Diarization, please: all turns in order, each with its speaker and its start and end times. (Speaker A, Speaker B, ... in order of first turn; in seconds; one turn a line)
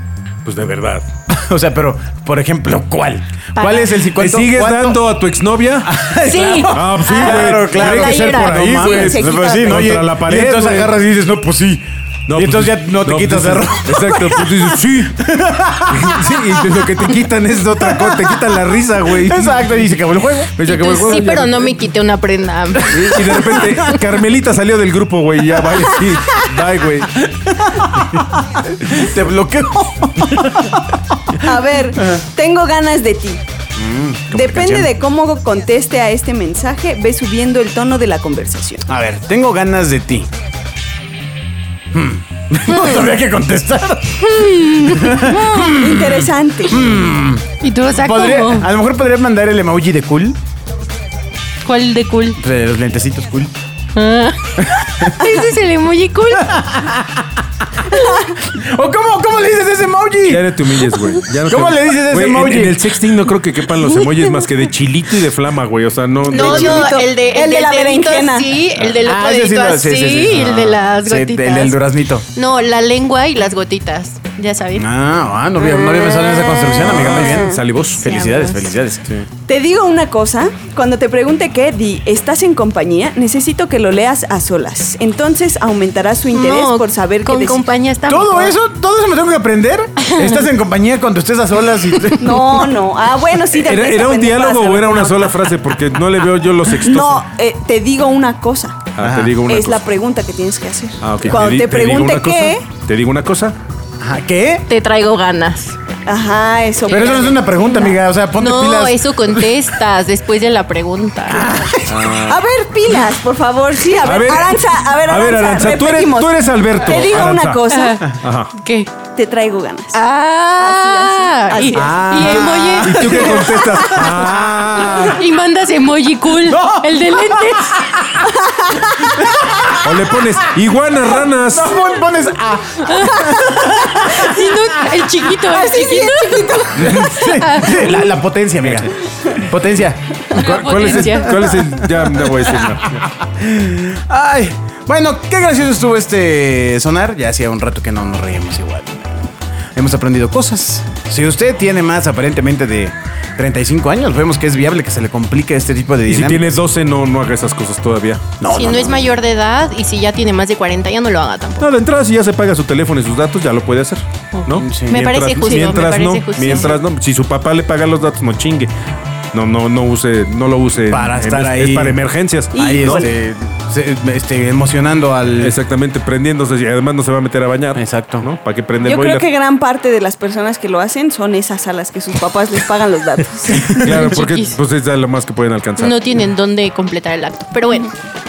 Speaker A: 0.5-1.0
Speaker B: 1.3-5.0
Speaker C: 3.6-4.0
Speaker A: 4.1-6.0
Speaker B: 5.8-16.8
Speaker C: 6.2-8.6
Speaker A: 6.7-10.9
Speaker D: 8.8-9.9
Speaker A: 12.3-15.2
Speaker A: 15.9-19.9
Speaker B: 17.8-18.4
Speaker B: 19.1-20.5
Speaker A: 20.6-21.8
Speaker C: 20.6-23.9
Speaker A: 22.9-27.3
Speaker B: 27.3-31.2
Speaker D: 31.4-33.4
Speaker B: 33.8-34.9
Speaker D: 34.3-38.9
Speaker B: 38.9-40.3
Speaker B: 41.9-50.4
Speaker C: 44.2-45.4
Speaker D: 45.1-46.9
Speaker C: 47.6-48.7
Speaker C: 51.6-52.4
Speaker B: 52.4-53.5
Speaker C: 54.0-56.5
Speaker B: 54.8-55.3
Speaker B: 56.4-60.6
Speaker A: 60.3-67.0
Speaker B: 61.5-62.9
Speaker C: 66.3-71.8
Speaker D: 66.3-68.6
Speaker B: 68.8-72.2
Speaker C: 72.3-74.9
Speaker B: 74.8-79.2
Speaker D: 75.7-77.6
Speaker A: 76.7-78.0
Speaker C: 78.0-78.7
Speaker D: 79.5-87.6
Speaker C: 86.3-88.6
Speaker B: 88.1-92.6
Speaker C: 90.0-90.5
Speaker D: 92.2-95.5
Speaker A: 93.5-97.3
Speaker D: 96.7-98.9
Speaker A: 99.0-99.8
Speaker B: 99.0-99.4
Speaker D: 99.4-102.6
Speaker A: 101.0-103.6
Speaker B: 104.0-104.7
Speaker C: 104.7-105.8
Speaker D: 106.1-107.4
Speaker B: 106.9-109.5
Speaker C: 106.9-107.2
Speaker C: 108.4-111.5
Speaker B: 111.3-112.2
Speaker A: 111.9-112.4
Speaker D: 112.1-118.2
Speaker A: 114.0-118.5
Speaker C: 117.7-118.9
Speaker D: 119.2-120.0
Speaker C: 119.9-123.2
Speaker D: 120.6-124.1
Speaker B: 121.7-125.1
Speaker A: 122.2-125.2
Speaker C: 125.0-127.9
Speaker B: 126.5-128.4
Speaker D: 128.3-129.2
Speaker B: 129.0-130.0
Speaker A: 129.7-131.8
Speaker B: 131.5-134.5
Speaker C: 132.8-133.3
Speaker C: 134.1-138.1
Speaker D: 135.4-137.4
Speaker B: 136.8-149.2
Speaker C: 140.3-141.3
Speaker A: 140.4-143.1
Speaker B: 149.8-156.6
Speaker A: 156.1-158.3
Speaker B: 158.4-159.1
Speaker C: 158.5-161.7
Speaker A: 161.6-168.7
Speaker C: 164.3-166.8
Speaker B: 164.6-165.2
Speaker A: 169.3-173.0
Speaker B: 170.9-172.0
Speaker B: 172.5-175.6
Speaker D: 172.5-173.1
Speaker A: 175.4-179.2
Speaker B: 177.8-178.3
Speaker D: 178.8-183.8
Speaker B: 183.6-184.0
Speaker A: 183.7-185.9
Speaker C: 184.0-184.6
Speaker C: 185.8-187.9